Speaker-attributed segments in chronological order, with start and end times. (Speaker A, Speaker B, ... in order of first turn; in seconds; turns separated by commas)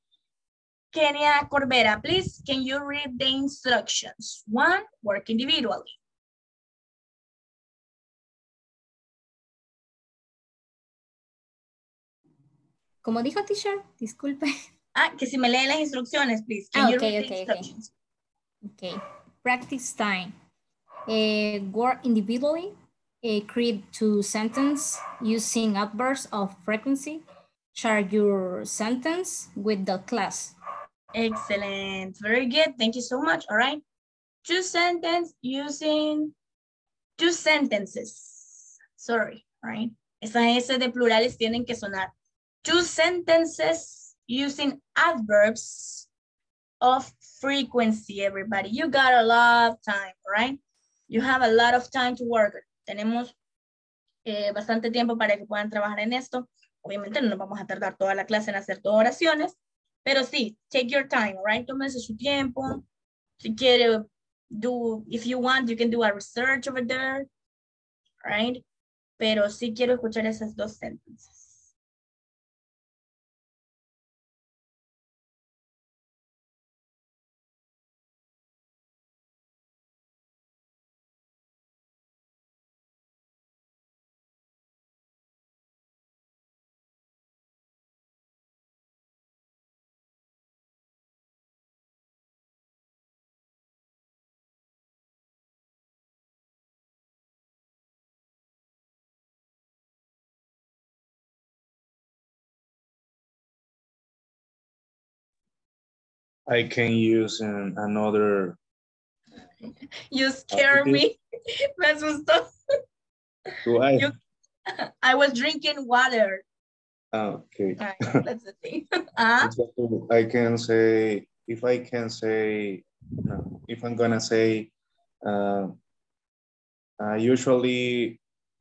Speaker A: 0.9-6.0, Speaker B: 13.0-14.5, Speaker A: 14.9-17.9, Speaker B: 16.7-17.7, Speaker B: 18.7-20.3, Speaker B: 21.1-27.2, Speaker B: 27.7-30.6, Speaker A: 31.1-33.8, Speaker A: 34.4-36.3, Speaker A: 37.2-42.1, Speaker A: 42.6-46.1, Speaker A: 46.8-53.4, Speaker A: 54.2-62.8, Speaker A: 63.4-67.3, Speaker A: 68.2-68.6, Speaker A: 69.2-71.6, Speaker C: 106.5-108.6, Speaker A: 110.1-111.2, Speaker C: 110.5-111.0, Speaker A: 111.8-112.5, Speaker C: 113.7-114.1, Speaker A: 114.7-116.4, Speaker C: 117.1-118.2, Speaker A: 117.8-119.5, Speaker C: 119.4-124.7, Speaker C: 125.3-125.8, Speaker C: 127.0-128.2